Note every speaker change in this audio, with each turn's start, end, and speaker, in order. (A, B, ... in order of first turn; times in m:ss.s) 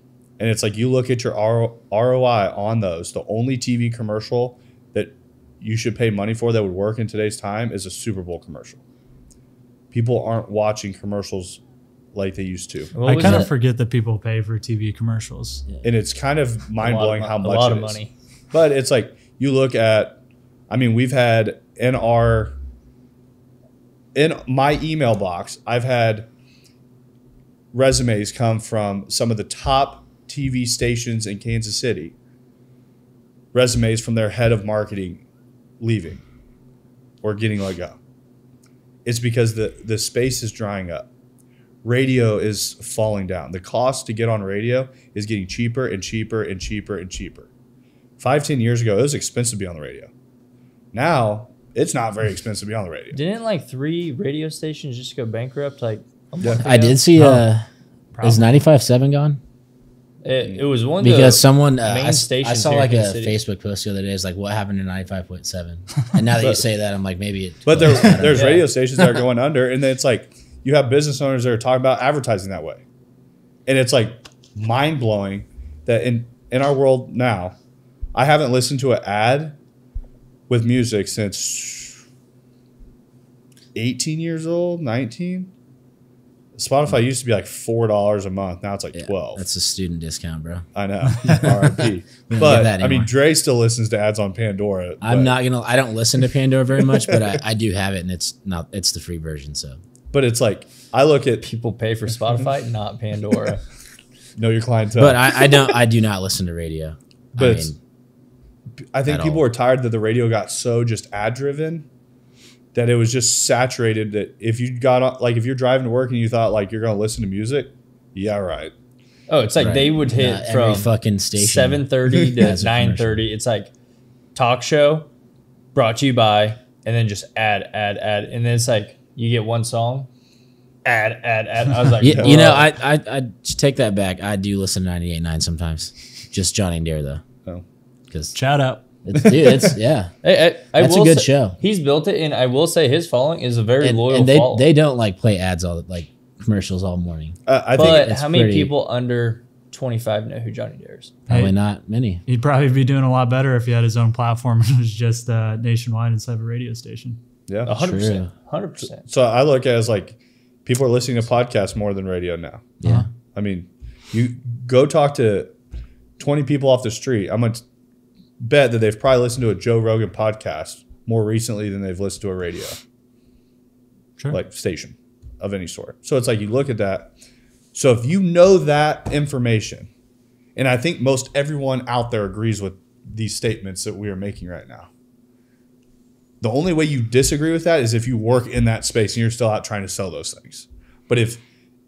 0:00.4-0:08.8 A
0:09.9-0:11.6 A
0:12.1-0:13.5 A
0:12.9-0:13.5 B
0:13.0-0:15.6 C
0:15.8-0:18.0 A
0:16.8-0:18.1 B
0:18.5-0:20.2 A
0:20.7-0:22.6 A
0:24.1-0:26.3 A
0:27.7-0:32.1 A
0:33.5-0:35.2 A
0:35.8-0:36.2 A
0:37.2-0:38.0 A
0:39.0-0:41.1 A
0:41.8-0:47.5 A
0:48.2-0:50.1 A
0:50.9-0:53.2 A
0:53.1-0:57.0 B
0:56.6-0:57.6 D
0:57.2-0:57.4 C
0:58.1-0:58.4 C
0:58.2-0:59.4 D
1:00.2-1:03.4 B
1:01.0-1:08.6 D
1:06.4-1:06.6 A
1:07.6-1:12.8 A
1:08.3-1:08.7 B
1:13.6-1:17.6 A
1:18.1-1:19.6 A
1:20.5-1:22.0 A
1:23.8-1:25.5 A
1:26.5-1:29.4 A
1:28.9-1:30.7 D
1:30.8-1:35.4 A
1:31.2-1:33.1 D
1:35.0-1:39.8 D
1:36.9-1:37.4 A
1:40.1-1:41.4 A
1:41.4-1:43.6 B
1:44.4-1:45.5 A
1:45.0-1:47.8 D
1:47.4-1:47.7 A
1:48.9-1:51.9 A
1:49.1-1:49.5 D
1:52.7-1:58.7 A
1:59.3-2:03.7 B
1:59.6-2:03.2 D
2:04.4-2:05.1 B
2:05.8-2:10.1 B
2:10.8-2:12.6 B
2:12.0-2:12.6 A
2:12.0-2:17.2 D
2:18.1-2:18.4 D
2:18.3-2:19.7 C
2:19.0-2:20.1 D
2:20.2-2:24.7 B
2:20.8-2:21.6 D
2:23.8-2:28.7 D
2:27.5-2:28.1 A
2:27.8-2:31.2 B
2:31.3-2:32.2 D
2:32.3-2:37.2 C
2:37.5-2:37.8 A
2:37.6-2:39.1 B
2:37.7-2:38.3 D
2:38.8-2:42.8 A
2:42.8-2:43.1 D
2:43.3-2:45.5 A
2:46.2-2:47.6 A
2:48.4-2:52.8 A
2:54.3-2:57.1 A
2:57.7-2:59.9 A
3:00.6-3:04.9 A
3:06.4-3:11.4 A